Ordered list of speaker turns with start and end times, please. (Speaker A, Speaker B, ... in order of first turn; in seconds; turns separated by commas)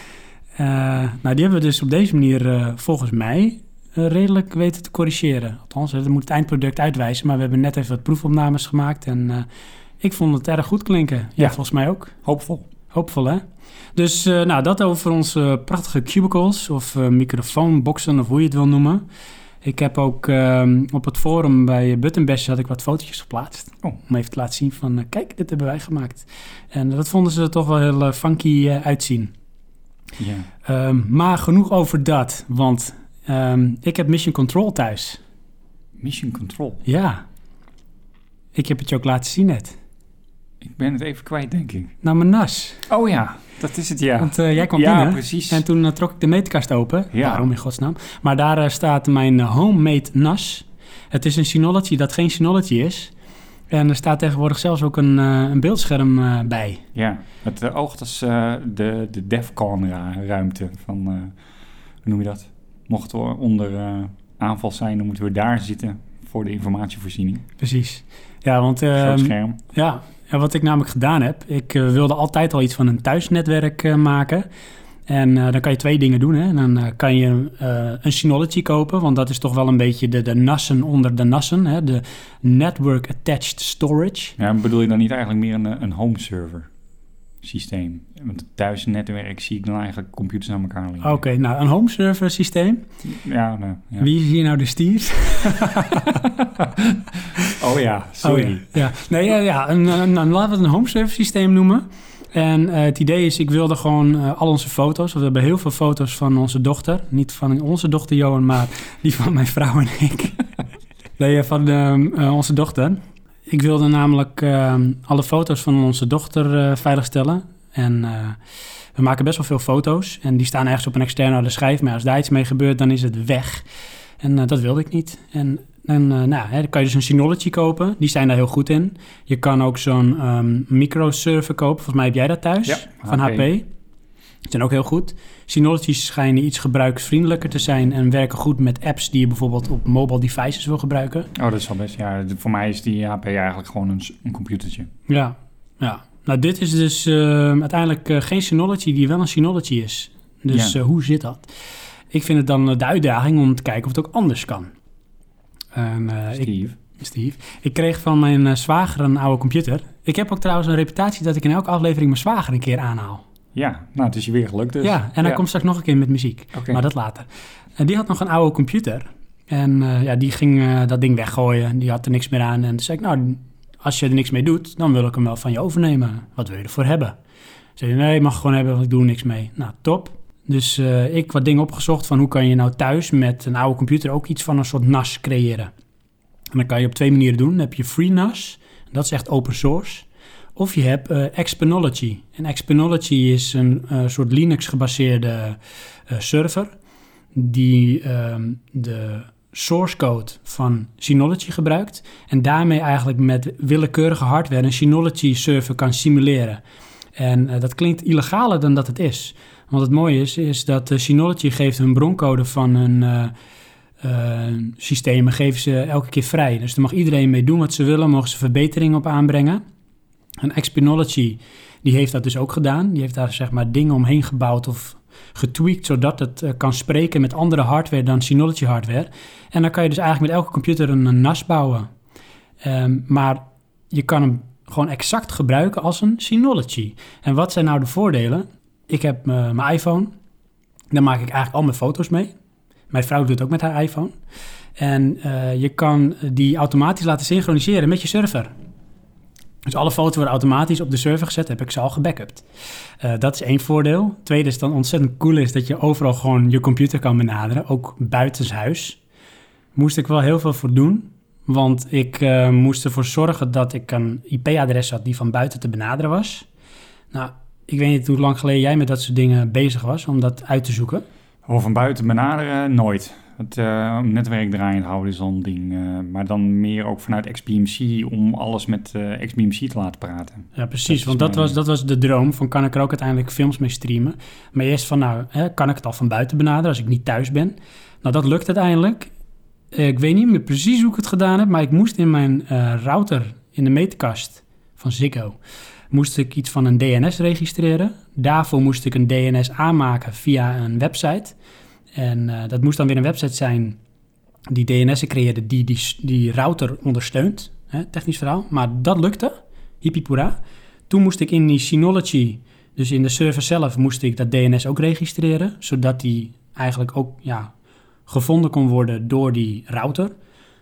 Speaker A: 0.6-9.4, Speaker A: 10.0-12.1, Speaker B: 12.2-12.7, Speaker A: 12.9-13.4, Speaker A: 13.9-19.0, Speaker A: 19.6-29.3, Speaker B: 30.2-30.5, Speaker A: 30.6-35.2, Speaker B: 36.0-36.8, Speaker A: 36.9-37.2, Speaker A: 38.5-39.8, Speaker B: 40.6-41.9, Speaker A: 42.0-42.9, Speaker B: 42.9-45.6, Speaker A: 44.2-53.1, Speaker B: 47.1-47.4, Speaker A: 53.7-56.8, Speaker B: 56.9-61.3, Speaker B: 62.0-67.4, Speaker A: 67.6-74.5, Speaker B: 69.0-69.6, Speaker A: 75.1-84.3, Speaker B: 84.4-86.7, Speaker B: 87.4-91.2, Speaker A: 91.0-92.8, Speaker B: 93.0-94.1, Speaker A: 94.0-96.2, Speaker B: 95.9-98.9, Speaker A: 98.2-110.4, Speaker A: 111.2-118.4, Speaker A: 119.0-123.6, Speaker A: 124.2-133.7, Speaker B: 132.6-133.5, Speaker A: 134.5-141.3, Speaker B: 141.3-144.9, Speaker A: 145.1-151.5, Speaker B: 150.5-150.8, Speaker A: 152.1-154.7, Speaker A: 155.7-163.2, Speaker B: 156.3-156.8, Speaker B: 163.5-165.4, Speaker A: 164.8-177.1, Speaker B: 166.5-166.8, Speaker A: 177.8-185.7, Speaker A: 186.5-196.7, Speaker A: 197.3-206.6, Speaker A: 207.2-213.3, Speaker A: 214.0-219.6, Speaker A: 220.4-231.9, Speaker A: 232.6-240.1, Speaker A: 240.9-242.3, Speaker A: 242.9-244.1, Speaker A: 244.8-248.5, Speaker A: 249.7-252.4, Speaker A: 253.0-259.0, Speaker A: 259.7-266.4, Speaker A: 267.1-271.0, Speaker B: 271.4-281.6, Speaker A: 280.6-289.1, Speaker A: 289.7-295.4, Speaker A: 295.9-301.3, Speaker A: 301.9-303.8, Speaker A: 304.5-310.4, Speaker A: 310.9-317.5, Speaker A: 318.1-320.1